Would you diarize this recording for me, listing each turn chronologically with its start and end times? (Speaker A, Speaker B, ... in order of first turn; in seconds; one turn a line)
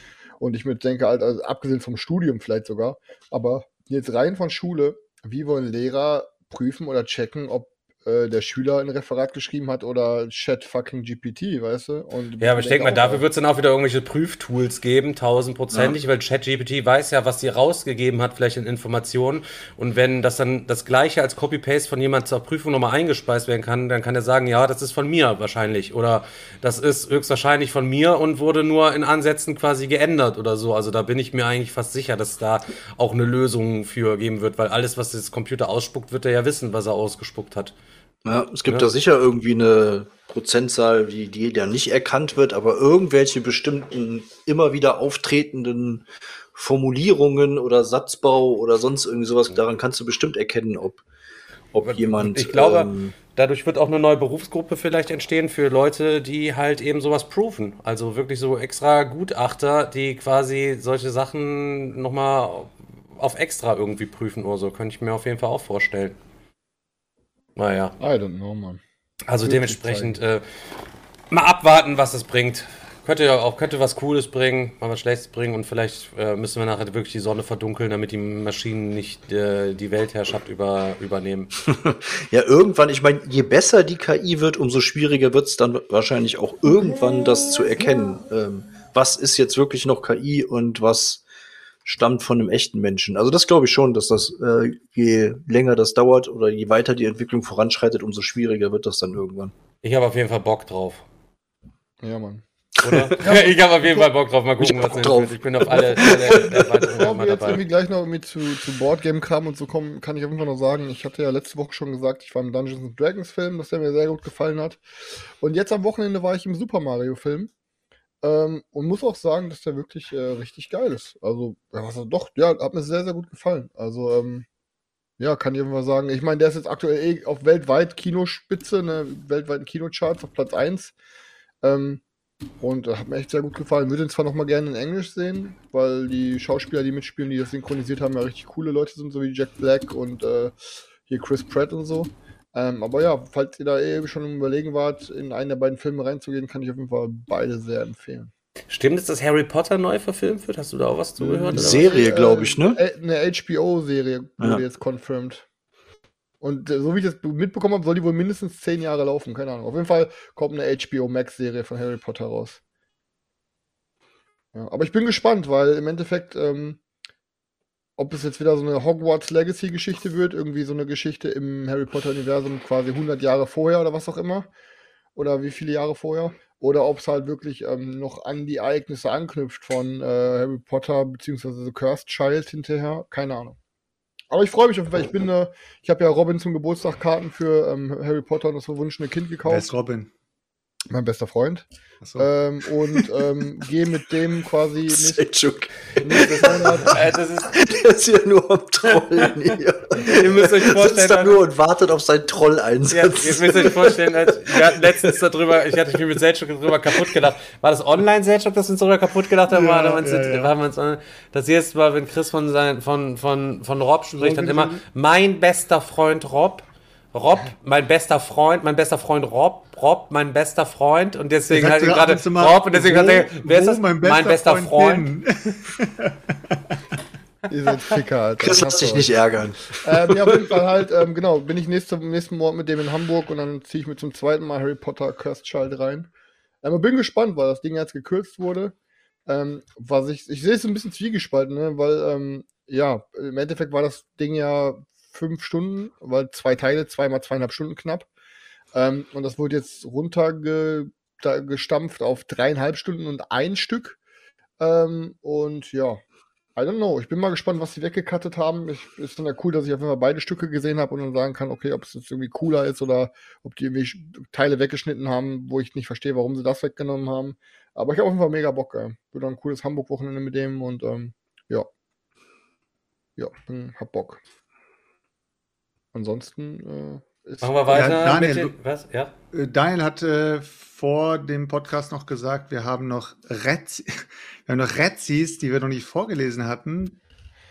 Speaker A: 0.4-13.2
Speaker B: 12.4-37.7
Speaker C: 38.2-51.0
Speaker C: 51.7-53.1
Speaker B: 51.8-66.2
Speaker B: 67.5-67.9
Speaker A: 68.0-68.8
Speaker B: 69.3-70.4
Speaker A: 69.4-70.2
Speaker B: 71.3-81.5
Speaker C: 81.7-91.2
Speaker C: 91.8-99.5
Speaker B: 99.8-101.0
Speaker A: 102.0-102.4
Speaker B: 102.8-107.6
Speaker A: 103.2-104.0
Speaker C: 104.6-106.6
Speaker A: 105.7-114.8
Speaker A: 115.4-117.5
Speaker A: 118.2-124.5
Speaker A: 125.2-130.9
Speaker A: 131.6-132.0
Speaker A: 132.6-140.5
Speaker A: 141.1-148.3
Speaker B: 148.7-151.9
Speaker A: 151.2-155.4
Speaker C: 151.5-152.8
Speaker A: 156.4-162.6
Speaker A: 164.5-166.8
Speaker A: 168.0-174.5
Speaker A: 175.2-183.6
Speaker A: 184.3-189.7
Speaker D: 189.4-190.1
Speaker A: 190.9-191.7
Speaker D: 192.0-192.3
Speaker A: 192.2-195.2
Speaker C: 194.9-197.0
Speaker A: 196.0-197.0
Speaker B: 196.8-197.6
Speaker C: 197.5-205.1
Speaker B: 200.0-201.4
Speaker B: 202.9-225.1
Speaker D: 209.5-210.5
Speaker D: 214.2-214.6
Speaker D: 221.5-226.6
Speaker A: 227.5-229.1
Speaker C: 228.4-230.5
Speaker A: 229.8-236.1
Speaker A: 236.6-238.7
Speaker A: 239.2-248.1
Speaker A: 248.7-254.0
Speaker A: 254.6-256.0
Speaker A: 256.6-271.7
Speaker A: 273.2-274.2
Speaker A: 275.9-278.1
Speaker B: 277.4-279.1
Speaker D: 277.7-278.5
Speaker D: 279.3-287.0